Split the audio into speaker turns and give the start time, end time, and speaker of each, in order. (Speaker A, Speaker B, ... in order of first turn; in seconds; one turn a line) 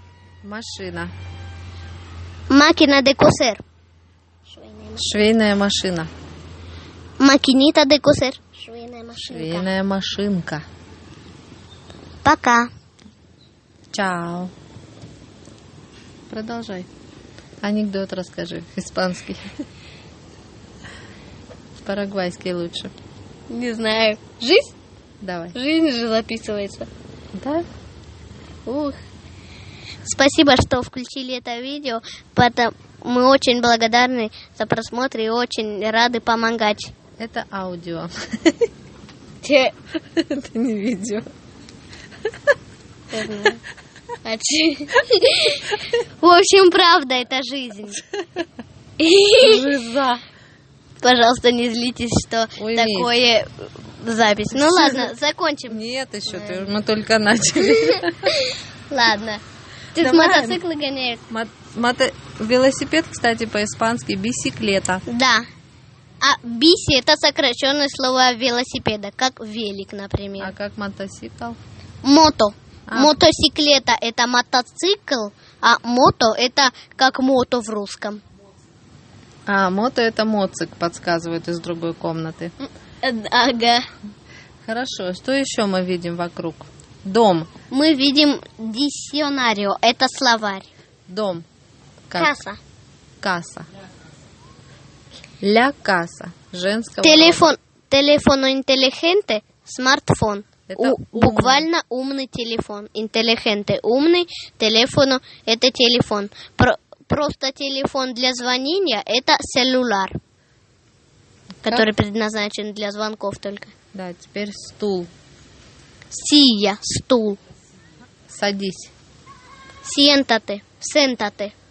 Speaker A: 0.4-1.1
Speaker B: 2.5-3.6
Speaker B: 4.5-5.1
Speaker A: 5.0-6.1
Speaker B: 7.2-9.7
Speaker A: 9.3-10.6
Speaker B: 12.2-12.7
Speaker A: 13.9-14.5
Speaker A: 16.3-16.9
Speaker A: 17.6-19.4
Speaker A: 21.8-22.9
Speaker B: 23.5-24.7
Speaker A: 25.2-25.6
Speaker B: 25.5-26.9
Speaker A: 27.3-27.6
Speaker B: 28.6-29.0
Speaker B: 30.0-36.9
Speaker A: 37.2-38.7
Speaker B: 39.4-39.7
Speaker A: 40.1-41.3
Speaker B: 43.1-43.6
Speaker B: 44.2-48.0
Speaker B: 49.0-49.6
Speaker A: 49.4-50.2
Speaker B: 51.0-56.7
Speaker A: 52.6-53.1
Speaker A: 54.5-55.1
Speaker A: 55.7-58.3
Speaker B: 57.6-59.4
Speaker B: 59.9-61.2
Speaker A: 60.0-60.6
Speaker A: 61.3-65.0
Speaker B: 65.1-65.5
Speaker B: 66.2-70.5
Speaker A: 70.4-71.6
Speaker B: 72.0-78.2
Speaker A: 72.9-73.2
Speaker A: 79.5-82.5
Speaker B: 83.0-83.8
Speaker A: 84.6-87.5
Speaker B: 87.7-90.7
Speaker A: 91.1-91.5
Speaker A: 92.1-92.3
Speaker B: 92.1-92.6
Speaker A: 93.2-93.7
Speaker A: 95.4-97.5
Speaker B: 97.0-110.2
Speaker A: 100.7-101.7
Speaker B: 111.6-113.7
Speaker A: 113.9-115.1
Speaker B: 116.1-117.4
Speaker A: 118.3-118.9
Speaker B: 119.8-121.5